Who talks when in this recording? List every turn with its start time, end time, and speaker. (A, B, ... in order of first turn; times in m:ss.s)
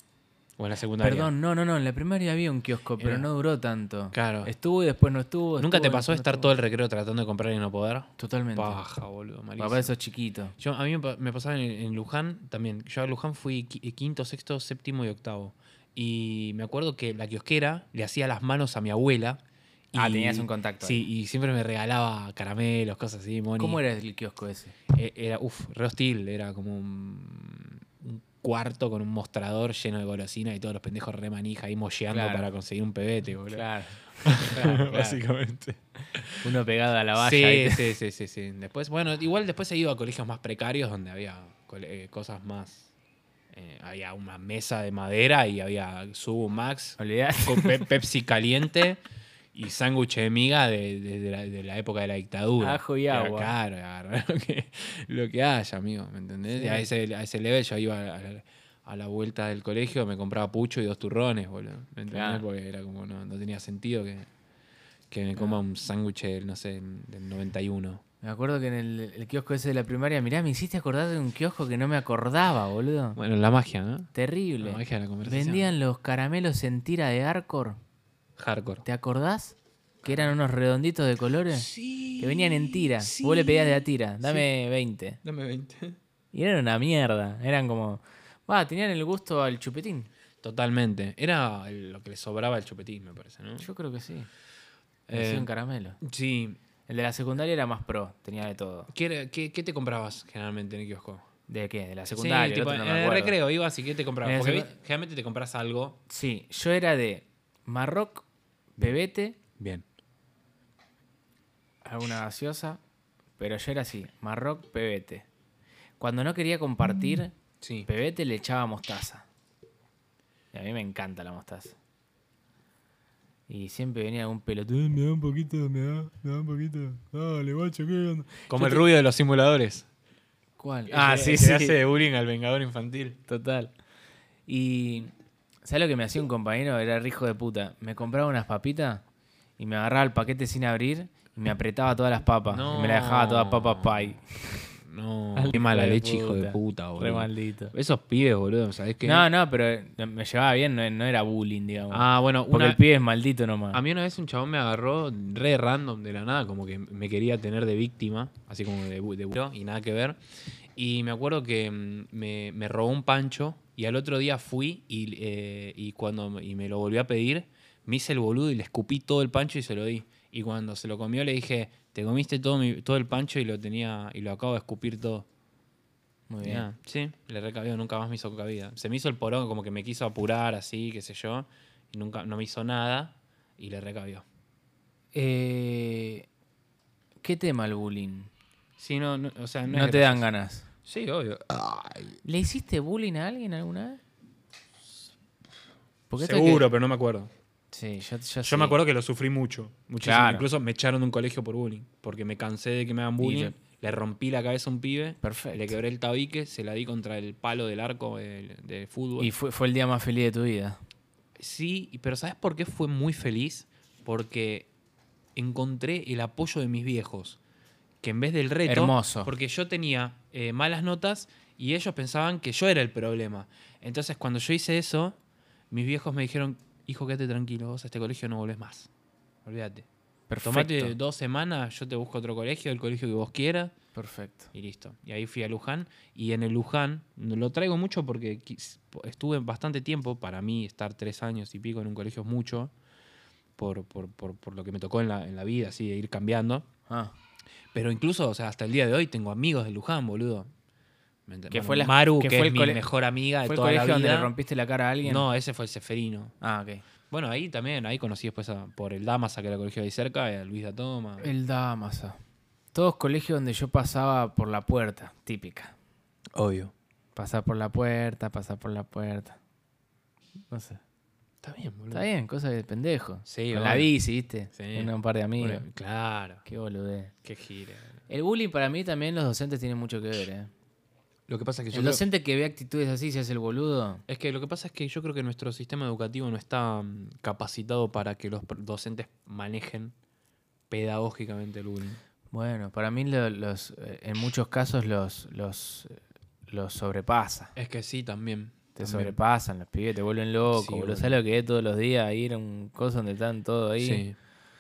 0:00.6-0:01.3 A
0:01.0-0:06.6 B
0:03.0-0:03.3 A
0:04.1-0:04.5 A
0:05.6-0:09.9 A
0:08.2-0:08.8 B
0:09.6-0:10.6 B
0:10.6-0:23.8 A
0:19.9-0:21.0 B
0:23.6-0:24.8 B
0:24.9-0:33.7 A
0:32.1-0:32.5 B
0:33.5-0:35.2 B
0:34.2-0:36.4 A
0:36.4-0:37.9 B
0:37.2-0:42.9 A
0:43.5-0:49.0 A
0:47.0-0:47.9 B
0:49.5-1:04.3 A
0:52.6-0:53.5 B
0:56.5-0:56.9 B
1:02.1-1:02.4 B
1:05.1-1:08.0 A
1:08.2-1:13.2 B
1:13.2-1:15.7 A
1:14.1-1:17.8 B
1:18.4-1:18.8 A
1:18.8-1:25.2 B
1:20.0-1:20.4 A
1:21.5-1:24.5 A
1:25.2-1:26.0 A
1:26.3-1:30.1 B
1:30.4-1:33.7 A
1:33.6-1:34.3 B
1:35.1-1:35.5 A
1:35.1-1:36.0 B
1:36.0-1:36.6 A
1:36.9-1:38.9 B
1:38.9-1:41.3 A
1:41.5-1:43.4 B
1:42.1-1:46.0 A
1:44.2-1:44.8 B
1:46.1-1:48.2 B
1:48.8-1:49.4 B
1:49.6-1:49.8 A
1:51.8-1:52.8 B
1:53.4-1:55.3 B
1:56.0-1:57.3 B
1:57.6-1:57.9 A
1:57.8-1:59.3 B
2:00.5-2:01.8 B
2:03.5-2:08.8 B
2:08.5-2:09.9 A
2:10.6-2:11.8 B
2:10.9-2:13.2 A
2:13.3-2:13.7 B
2:14.5-2:15.1 B
2:15.6-2:19.0 B
2:19.6-2:24.6 B
2:22.5-2:29.3 A
2:25.4-2:27.7 B
2:29.0-2:33.8 B
2:31.9-2:32.8 A
2:33.7-2:40.2 A
2:40.8-2:55.3 A
2:56.3-2:56.7 B
2:56.4-3:04.2 A
3:05.1-3:06.3 B
3:07.2-3:08.3 B
3:08.8-3:10.3 A
3:09.7-3:10.7 B
3:10.8-3:12.2 A
3:12.2-3:14.0 B
3:16.1-3:16.7 B
3:16.2-3:17.3 A
3:17.7-3:18.8 B
3:18.4-3:29.3 A
3:20.0-3:20.5 B
3:23.2-3:23.6 B
3:25.2-3:25.8 B
3:29.2-3:30.8 B
3:31.4-3:34.7 A
3:35.4-3:37.4 A
3:38.0-3:45.2 A
3:38.7-3:39.3 B
3:45.7-3:48.9 A
3:49.4-3:49.9 A
3:50.3-3:51.0 B
3:50.4-3:53.7 A
3:54.0-3:54.5 B
3:54.5-4:02.7 A
4:03.6-4:06.7 A
4:06.9-4:07.1 B
4:07.7-4:10.5 A
4:11.3-4:14.3 A
4:11.5-4:12.8 B
4:13.4-4:15.3 B
4:15.0-4:16.4 A
4:16.4-4:16.8 B
4:17.1-4:21.3 A
4:21.2-4:22.2 B
4:22.7-4:25.7 B
4:26.3-4:26.7 A
4:27.2-4:29.4 B
4:30.5-4:30.8 B
4:31.4-4:32.1 A
4:31.9-4:35.7 B
4:33.3-4:33.9 A
4:34.5-4:36.4 A
4:36.4-4:37.1 B
4:37.2-4:38.0 A
4:38.1-4:40.5 B
4:41.3-4:42.0 A
4:41.7-4:44.0 B
4:44.1-4:49.9 A
4:50.7-4:52.0 A
4:52.3-4:57.5 B
4:57.6-4:59.2 A
4:58.8-5:04.0 B
5:00.5-5:01.2 A
5:03.8-5:04.2 A